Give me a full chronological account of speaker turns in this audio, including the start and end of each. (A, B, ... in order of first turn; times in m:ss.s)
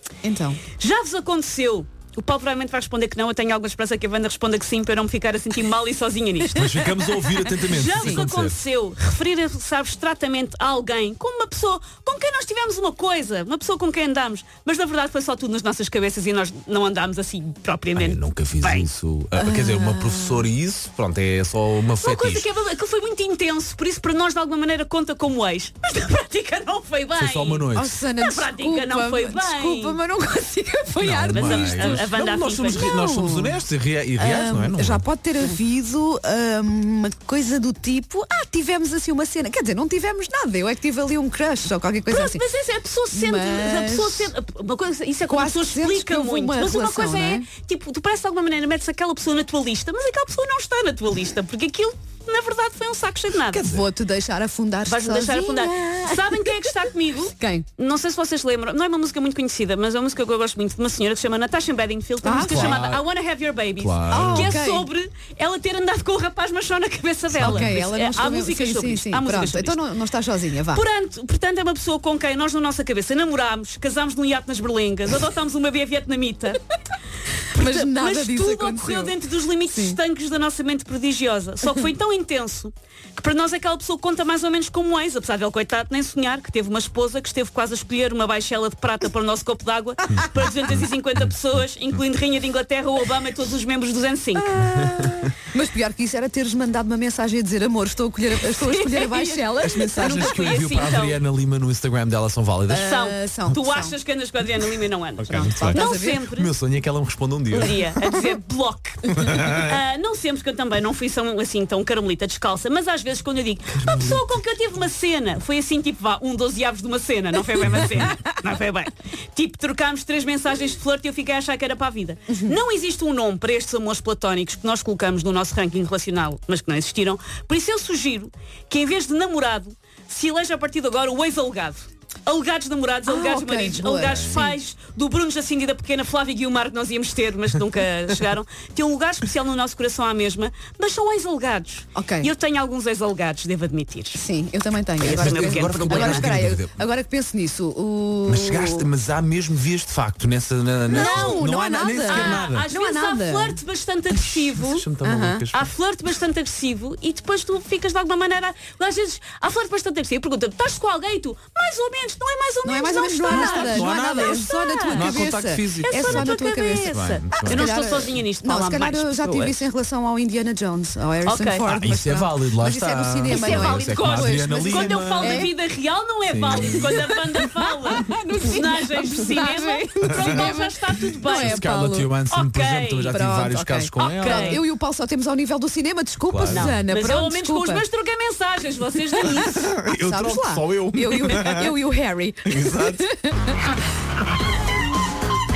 0:00.2-0:00.6 A
0:00.8-0:18.9 B
0:06.5-0:08.6 C
0:07.8-0:08.2 A
0:17.9-0:22.4 C
0:19.4-0:20.5 A
0:22.0-0:30.0 B
0:27.2-0:28.0 C
0:27.7-0:32.1 A
0:31.0-0:35.0 C
0:31.3-0:33.0 B
0:32.7-0:33.6 A
0:34.2-0:42.4 A
0:42.1-0:53.6 B
0:43.1-0:44.3 A
0:45.3-0:47.5 A
0:53.5-0:53.9 C
0:53.6-0:57.6 A
0:54.8-1:09.8 B
1:02.2-1:02.8 A
1:02.4-1:03.0 C
1:03.8-1:04.6 C
1:04.1-1:04.9 A
1:07.4-1:07.7 C
1:07.4-1:10.8 A
1:10.7-1:16.6 B
1:17.5-1:20.0 A
1:17.6-1:34.9 B
1:34.4-1:40.4 A
1:38.4-1:41.2 B
1:40.0-1:42.9 C
1:42.7-1:43.9 A
1:42.8-1:46.5 B
1:45.2-1:47.8 C
1:45.2-1:46.2 A
1:47.5-2:24.2 B
1:49.3-1:49.7 C
1:53.7-1:54.3 C
2:02.3-2:02.6 A
2:13.1-2:14.6 A
2:21.9-2:22.3 A
2:24.1-2:28.9 A
2:25.0-2:26.4 B
2:25.0-2:26.8 C
2:28.3-2:32.7 C
2:30.9-2:33.6 A
2:30.9-2:31.5 B
2:32.0-2:34.9 B
2:34.1-2:34.4 A
2:34.5-2:35.7 C
2:35.0-2:35.4 A
2:35.5-2:49.6 B
2:42.6-2:55.5 A
2:43.3-2:46.3 C
2:46.8-2:47.7 C
2:51.2-2:51.7 B
2:51.7-2:55.4 C
2:53.3-3:01.6 B
2:56.3-2:56.9 C
2:56.6-3:02.1 A
3:00.1-3:00.3 C
3:01.2-3:04.6 C
3:02.3-3:03.2 B
3:03.1-3:07.8 A
3:04.0-3:04.6 B
3:06.3-3:06.8 C
3:06.5-3:09.5 B
3:09.1-3:13.7 A
3:09.3-3:11.7 C
3:12.4-3:13.1 C